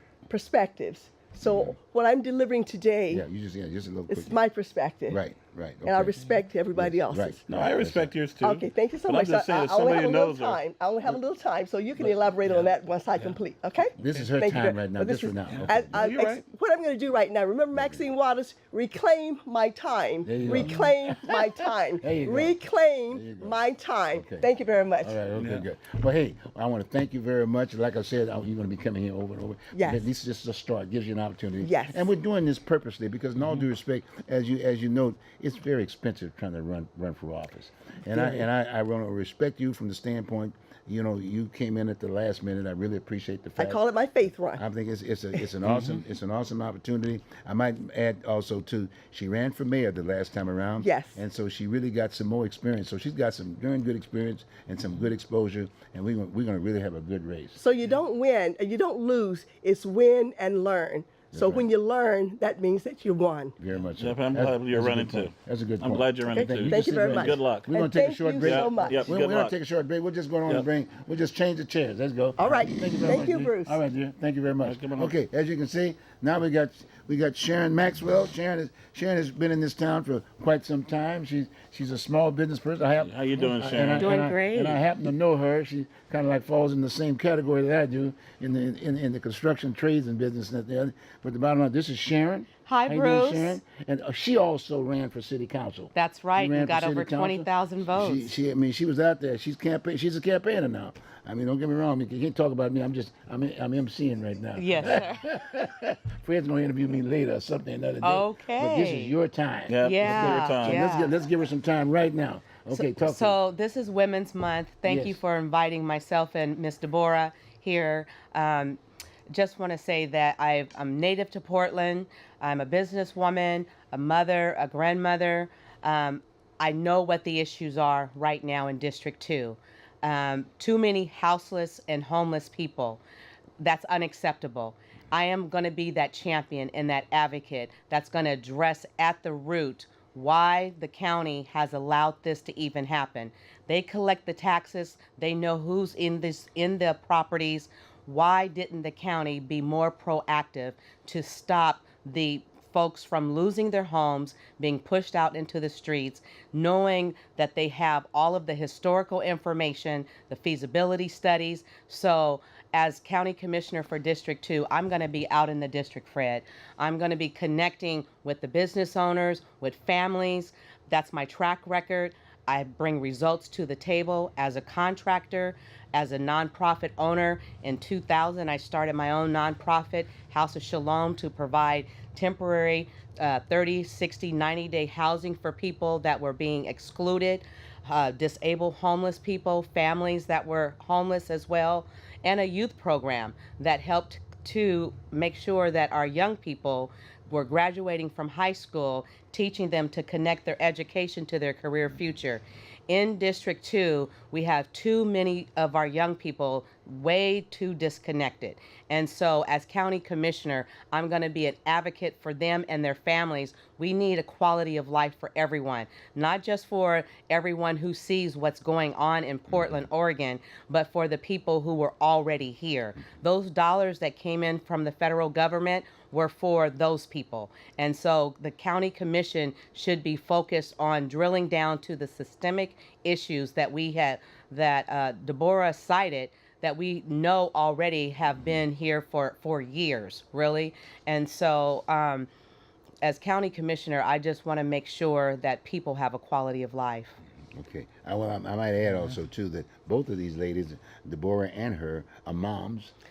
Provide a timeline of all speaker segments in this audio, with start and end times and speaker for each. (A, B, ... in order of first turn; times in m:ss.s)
0:00.3-0:03.2 A
0:01.4-0:01.8 B
0:03.1-0:04.4 B
0:04.1-0:05.2 A
0:05.1-0:06.2 B
0:05.8-0:07.5 A
0:06.7-0:08.1 B
0:07.5-0:11.2 C
0:08.4-0:25.2 A
0:12.0-0:13.4 C
0:14.0-0:16.1 B
0:14.0-0:14.3 C
0:15.5-0:16.4 C
0:17.7-0:18.0 B
0:20.2-0:22.6 B
0:20.4-0:20.7 C
0:23.1-0:23.6 B
0:24.1-0:24.5 B
0:25.0-0:43.8 B
0:25.4-0:25.7 C
0:29.7-0:30.0 A
0:31.6-0:32.1 A
0:38.1-0:38.4 A
0:43.6-0:44.6 A
0:44.5-0:57.6 B
0:45.6-0:46.0 C
0:50.8-0:51.2 A
0:57.6-1:03.6 A
1:01.3-1:01.7 B
1:03.6-1:53.4 B
1:04.0-1:07.8 C
1:06.3-1:09.2 A
1:08.4-1:09.6 C
1:12.4-1:13.8 A
1:14.6-1:15.2 C
1:23.0-1:24.1 C
1:24.0-1:24.8 D
1:32.7-1:33.6 D
1:36.0-1:38.4 D
1:44.6-1:45.3 D
1:48.0-1:49.2 D
1:49.7-1:50.9 C
1:49.8-1:51.2 D
1:52.7-2:13.0 D
1:54.8-1:55.2 B
2:13.6-4:02.3 D
4:03.0-4:07.2 D
4:07.6-4:12.9 B